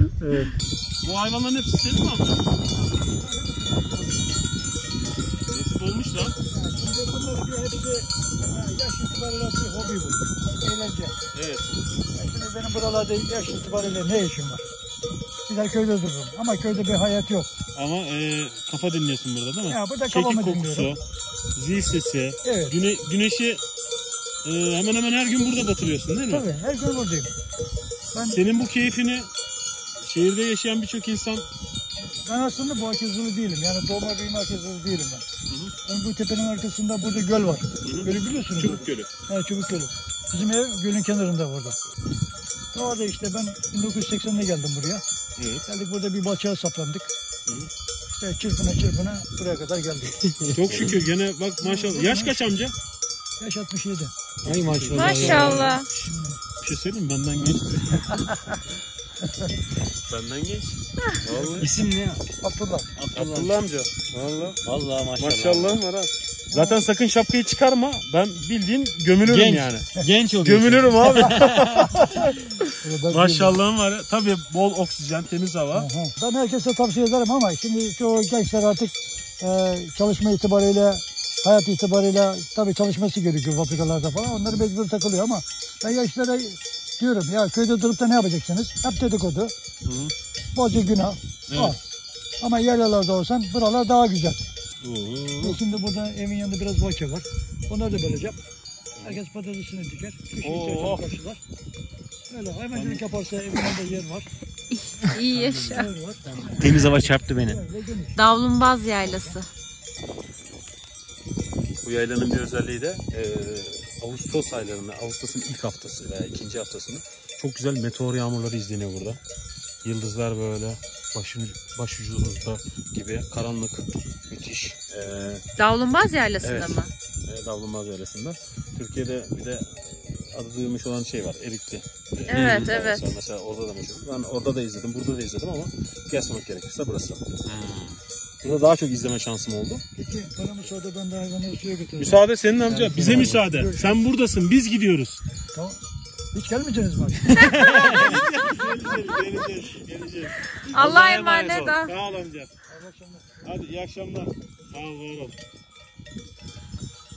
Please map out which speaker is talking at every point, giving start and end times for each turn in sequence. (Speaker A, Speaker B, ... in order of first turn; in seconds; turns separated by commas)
Speaker A: 0.2-2.4, Speaker B: 3.1-4.1, Speaker A: 5.5-6.3, Speaker B: 6.5-11.2, Speaker A: 11.3-11.8, Speaker B: 12.2-14.7, Speaker B: 15.5-17.5, Speaker A: 17.8-21.0, Speaker B: 19.7-20.9, Speaker A: 21.6-23.6, Speaker B: 22.4-22.7, Speaker A: 24.4-26.4, Speaker B: 26.3-27.3, Speaker B: 28.1-28.4, Speaker A: 28.3-29.3, Speaker A: 30.0-31.5, Speaker B: 32.2-35.2, Speaker A: 35.5-35.7, Speaker B: 35.9-41.8, Speaker A: 37.8-39.1, Speaker B: 42.7-45.0, Speaker A: 45.4-45.6, Speaker B: 45.7-47.1, Speaker B: 48.1-50.2, Speaker A: 50.5-52.7, Speaker B: 51.6-52.4, Speaker B: 53.4-54.1, Speaker A: 54.4-55.9, Speaker C: 54.4-55.7, Speaker D: 54.9-55.9, Speaker A: 56.6-58.1, Speaker A: 60.0-61.7, Speaker B: 61.3-61.7, Speaker C: 61.4-62.2, Speaker B: 62.4-62.9, Speaker C: 63.0-63.6, Speaker A: 63.0-64.5, Speaker C: 64.1-65.8, Speaker A: 65.2-72.3, Speaker B: 66.5-66.8, Speaker C: 69.2-71.9, Speaker B: 72.8-73.6, Speaker A: 73.1-75.9, Speaker B: 75.7-89.5, Speaker A: 89.8-90.1, Speaker B: 90.5-91.8, Speaker A: 91.5-91.8, Speaker B: 92.4-94.4, Speaker A: 94.8-95.6, Speaker B: 95.4-98.4, Speaker B: 99.0-101.4, Speaker A: 100.4-101.1, Speaker B: 102.3-104.3, Speaker A: 102.7-103.0, Speaker D: 104.7-105.9, Speaker B: 105.3-106.8, Speaker C: 106.6-107.6, Speaker A: 106.7-107.0, Speaker B: 107.5-108.2, Speaker D: 108.1-109.5, Speaker B: 109.0-109.3, Speaker A: 111.8-119.2, Speaker A: 119.8-125.4, Speaker D: 125.6-126.9, Speaker A: 126.4-137.2, Speaker D: 132.3-133.1, Speaker C: 137.4-138.0, Speaker A: 138.4-139.8, Speaker B: 140.0-143.9, Speaker A: 142.0-145.2, Speaker C: 143.1-143.4, Speaker B: 145.5-145.8, Speaker B: 146.3-147.7, Speaker C: 147.3-148.2, Speaker A: 147.6-152.5, Speaker D: 150.7-151.9, Speaker C: 150.8-151.3, Speaker B: 152.7-153.3, Speaker A: 153.4-155.4